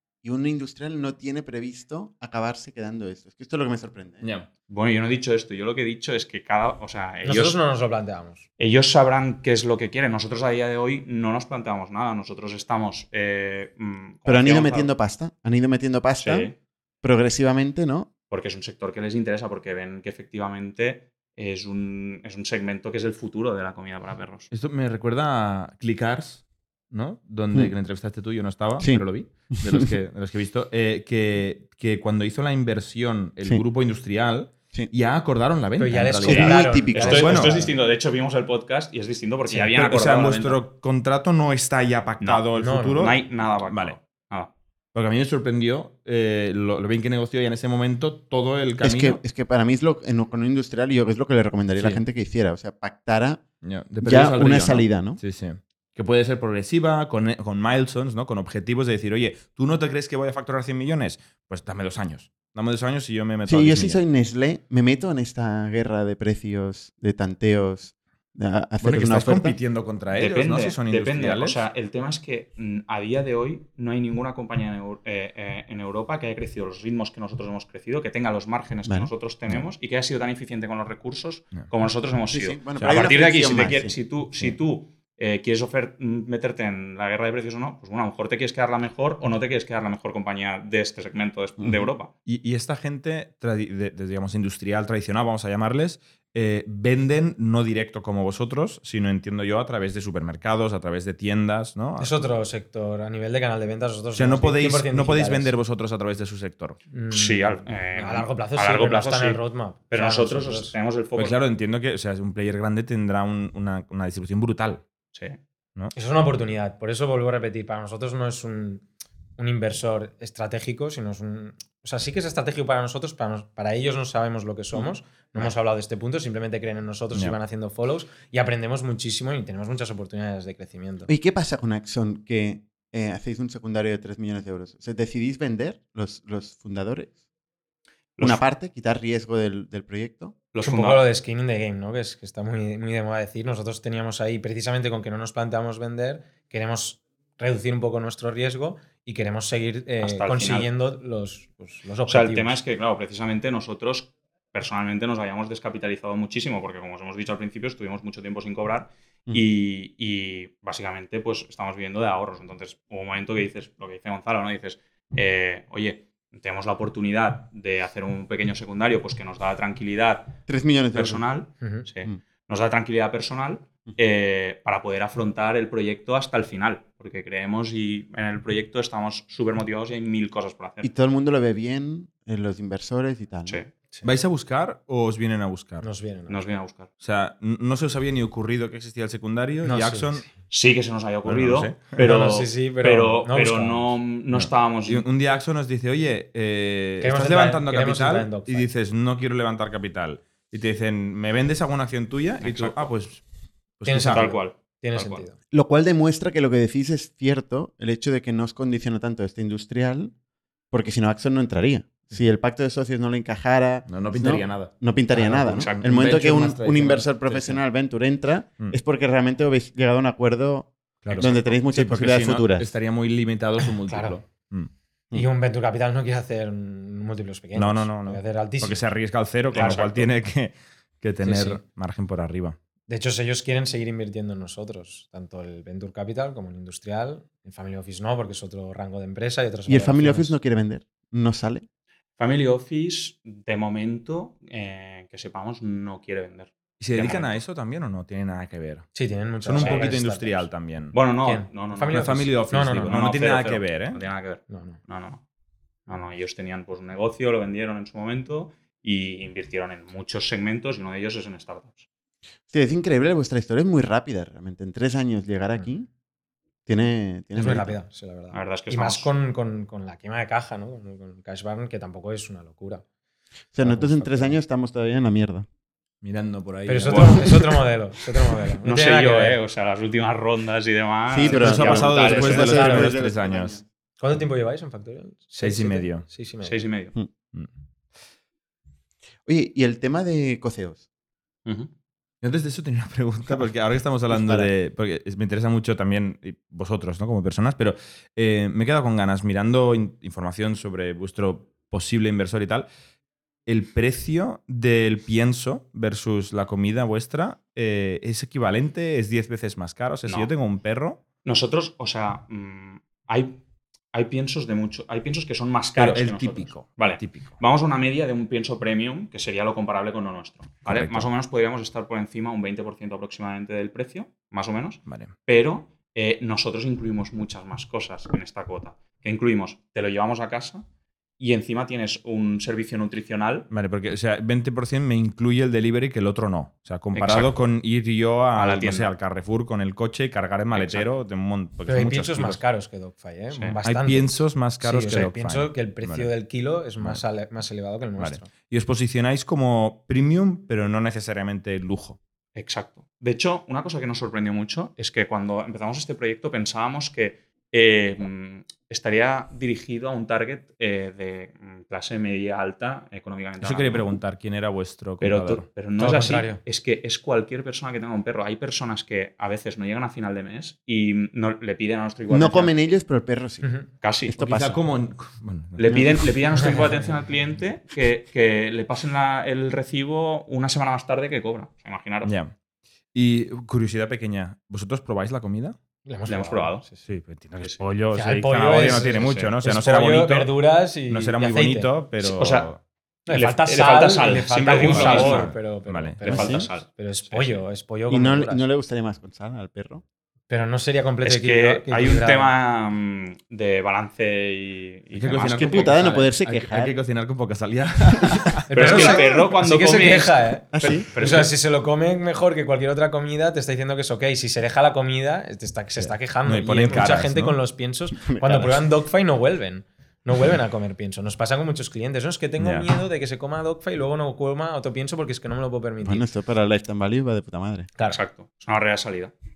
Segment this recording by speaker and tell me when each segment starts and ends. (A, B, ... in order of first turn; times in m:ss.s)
0:00.2-0:04.3 A
0:04.2-0:04.5 B
0:04.7-0:07.6 C
0:07.2-0:08.4 D
0:08.6-0:14.9 C
0:14.3-0:16.5 A
0:16.2-0:16.6 C
0:17.0-0:18.1 A
0:18.3-0:24.5 C
0:24.5-0:37.6 B
0:28.8-0:29.9 A
0:35.8-0:37.8 D
0:36.2-0:37.5 A
0:36.9-0:40.6 C
0:39.7-0:44.0 B
0:42.6-0:43.1 D
0:43.0-0:44.5 C
0:44.9-0:49.2 B
0:48.8-0:53.4 A
0:51.7-0:52.0 B
0:53.6-1:04.0 B
0:54.0-0:55.2 A
1:03.5-1:09.6 A
1:08.8-1:11.6 B
1:10.1-1:32.1 C
1:22.3-1:23.9 A
1:22.8-1:23.1 B
1:32.3-1:42.3 B
1:42.0-1:45.5 D
1:44.2-1:46.8 B
1:46.9-1:50.7 D
1:47.1-1:51.4 C
1:51.2-1:54.8 B
1:55.1-1:55.4 C
1:56.0-1:58.9 D
1:59.4-2:11.1 D
2:04.7-2:05.5 A
2:11.1-2:17.1 A
2:18.2-2:20.3 A
2:20.5-2:21.0 C
2:20.6-2:32.6 D
2:30.0-2:30.7 C
2:32.1-2:50.4 C
2:50.5-2:51.2 A
2:50.9-3:00.9 C
2:51.6-2:51.9 D
3:00.8-3:03.6 A
3:04.0-3:05.9 B
3:05.8-3:06.4 D
3:06.3-3:06.9 C
3:07.0-3:10.3 B
3:09.6-3:10.3 D
3:10.5-3:15.1 C
3:11.2-3:12.0 B
3:12.0-3:13.9 D
3:14.3-3:23.2 B
3:17.0-3:18.7 D
3:22.4-3:22.9 C
3:23.8-3:24.3 B
3:23.8-3:25.4 D
3:24.0-3:25.3 C
3:25.5-3:30.1 A
3:30.7-3:42.7 A
3:33.9-3:37.6 B
3:35.2-3:35.7 D
3:35.6-3:35.9 C
3:41.0-3:44.7 B
3:43.9-3:44.2 D
3:45.1-3:48.8 D
3:47.6-3:52.6 B
3:49.5-3:50.1 C
3:49.5-3:50.0 D
3:51.2-3:51.6 D
3:52.9-4:00.4 D
3:59.7-4:01.7 A
4:02.2-4:07.4 C
4:06.8-4:08.9 B
4:09.0-4:10.5 D
4:09.4-4:11.0 B
4:09.6-4:09.9 C
4:10.9-4:12.3 C
4:11.2-4:13.0 D
4:11.9-4:14.0 B
4:12.8-4:15.2 C
4:14.5-4:14.8 D
4:15.9-4:21.9 C
4:22.5-4:25.9 A
4:26.7-4:27.7 A
4:27.4-4:32.8 D
4:28.3-4:29.1 C
4:33.5-4:35.5 A
4:33.6-4:34.4 D
4:36.0-4:37.3 B
4:36.7-4:39.4 D
4:36.9-4:37.5 C
4:38.6-4:42.6 C
4:41.1-4:43.6 A
4:41.2-4:43.6 B
4:42.4-4:43.0 D
4:44.0-4:46.6 D
4:45.4-4:46.1 B
4:46.4-4:46.9 C
4:49.3-4:50.8 A
4:52.2-5:02.7 B
4:54.1-4:54.5 A
5:03.5-5:11.0 B
5:11.2-5:13.4 C
5:13.9-5:30.6 C
5:15.8-5:17.4 B
5:20.7-5:21.1 B
5:24.9-5:25.1 B
5:31.2-5:33.5 C
5:33.5-5:42.4 B
5:36.9-5:37.3 C
5:38.4-5:38.9 C
5:40.5-5:40.9 C
5:41.7-5:48.3 D
5:43.3-5:43.6 C
5:43.6-5:46.1 B
5:48.0-5:52.0 B
5:52.4-6:03.9 C
6:03.4-6:05.5 B
6:05.0-6:12.5 C
6:05.8-6:06.4 D
6:12.1-6:13.5 A
6:13.4-6:13.7 D
6:13.8-6:14.2 C
6:14.1-6:14.6 A
6:14.2-6:16.0 B
6:15.6-6:22.1 C
6:16.4-6:16.8 D
6:22.0-6:22.4 B
6:22.9-6:25.6 B
6:25.9-6:26.9 D
6:26.1-6:26.6 C
6:26.9-6:32.6 B
6:27.9-6:31.7 D
6:28.5-6:29.3 C
6:32.0-6:32.5 C
6:33.1-6:38.4 D
6:33.1-6:35.3 C
6:34.1-6:36.5 B
6:36.0-6:37.4 C
6:37.9-6:39.8 A
6:40.3-6:42.3 D
6:41.0-6:45.7 C
6:44.9-6:49.2 B
6:45.2-6:46.8 A
6:48.5-7:06.0 D
6:48.5-6:51.3 C
6:50.5-6:50.9 A
6:55.8-6:57.4 B
6:58.0-6:58.6 A
7:02.4-7:02.7 B
7:05.8-7:07.7 A
7:07.8-7:09.1 C